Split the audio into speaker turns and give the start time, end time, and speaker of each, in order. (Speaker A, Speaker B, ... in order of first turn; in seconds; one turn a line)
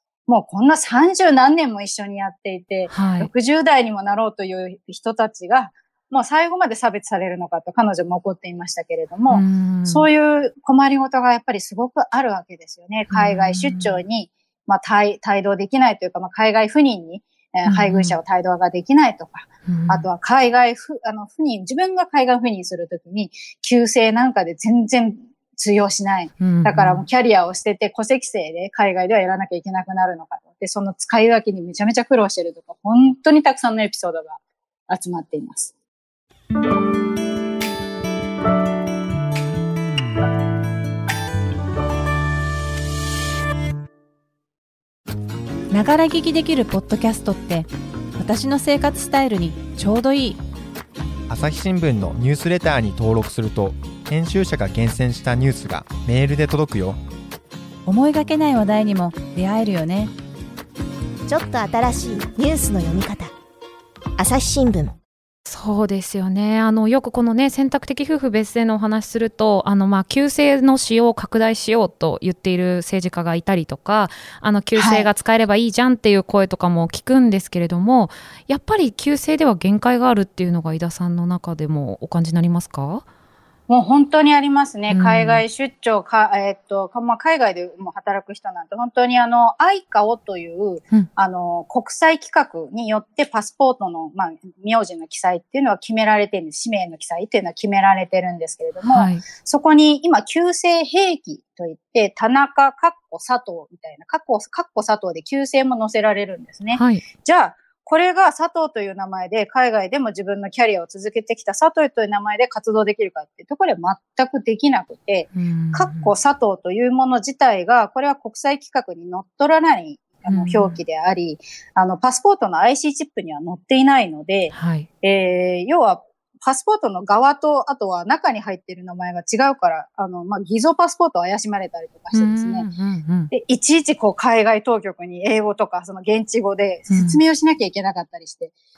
Speaker A: 0.3-35.7
Speaker B: 2.9-3.3
Speaker B: 9.3-10.1
Speaker B: 13.1-14.0
Speaker B: 17.6-18.2
Speaker B: 19.6-20.1
Speaker B: 26.4-27.0
Speaker C: 45.7-50.4
Speaker D: 51.3-57.0
Speaker C: 57.9-60.1
Speaker E: 61.3-63.3
Speaker E: 64.2-64.9
Speaker B: 65.5-83.0
Speaker A: 74.7-75.1
Speaker A: 83.7-132.7
Speaker B: 84.9-85.4
Speaker B: 98.8-99.2
Speaker B: 106.7-107.0
Speaker B: 115.3-116.1
Speaker B: 120.3-120.8
Speaker B: 124.5-124.9
Speaker B: 132.1-133.3
Speaker A: 133.3-138.5
Speaker B: 136.9-137.2